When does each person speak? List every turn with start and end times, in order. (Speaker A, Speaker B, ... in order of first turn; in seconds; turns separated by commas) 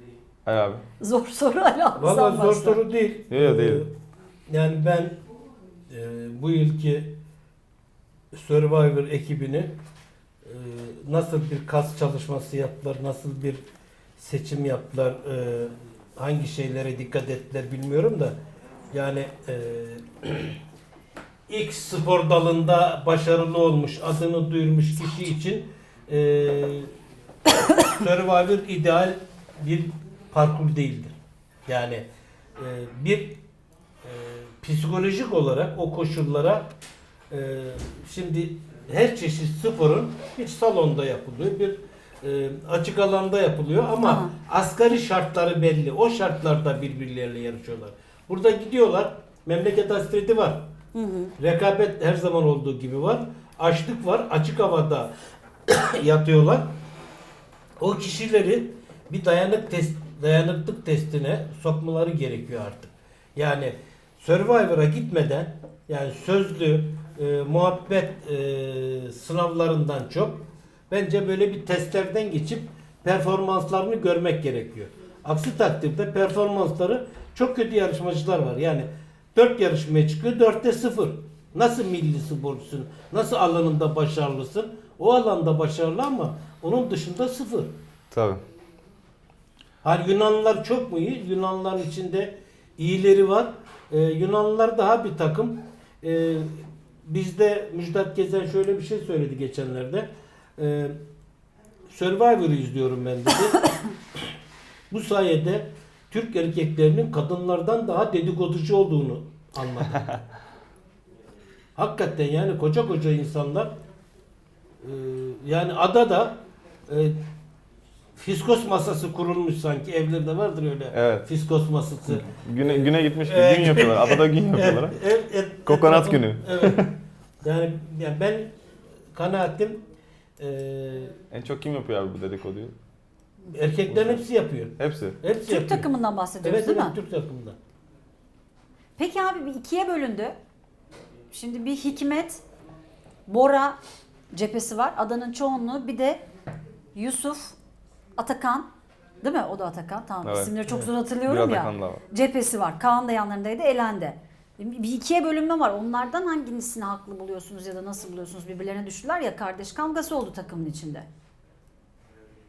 Speaker A: 0.5-0.8, Speaker B: 1.0-2.8, Speaker C: 2.0-3.9, Speaker A: 3.3-3.9, Speaker C: 4.5-5.2, Speaker C: 5.9-7.2, Speaker C: 8.3-9.7, Speaker C: 10.4-13.6, Speaker C: 14.2-18.4, Speaker C: 18.9-20.6, Speaker C: 21.5-26.9, Speaker C: 27.8-31.2, Speaker C: 31.7-32.0, Speaker C: 32.6-33.4, Speaker C: 34.0-36.7, Speaker C: 37.3-50.7, Speaker B: 44.0-44.3, Speaker B: 50.9-51.3, Speaker C: 51.4-55.1, Speaker C: 55.7-56.7, Speaker C: 57.8-87.7, Speaker A: 88.1-88.4, Speaker C: 89.8-101.0, Speaker C: 101.9-103.7, Speaker C: 104.9-110.1, Speaker C: 111.8-113.7, Speaker C: 114.8-117.2, Speaker C: 118.2-126.9, Speaker A: 120.9-121.3, Speaker A: 122.1-125.0, Speaker A: 125.7-126.9, Speaker C: 127.4-128.5, Speaker C: 129.1-129.8, Speaker C: 130.4-131.2, Speaker A: 131.3-132.8, Speaker C: 133.5-135.9, Speaker A: 133.9-134.3, Speaker A: 134.8-135.2, Speaker B: 135.5-136.9, Speaker C: 136.4-137.6, Speaker B: 139.0-140.3, Speaker B: 141.3-142.4, Speaker B: 143.3-143.8, Speaker B: 144.3-146.2, Speaker B: 146.9-147.6, Speaker B: 148.2-148.7, Speaker B: 149.2-161.1, Speaker A: 150.2-150.5, Speaker A: 151.2-152.0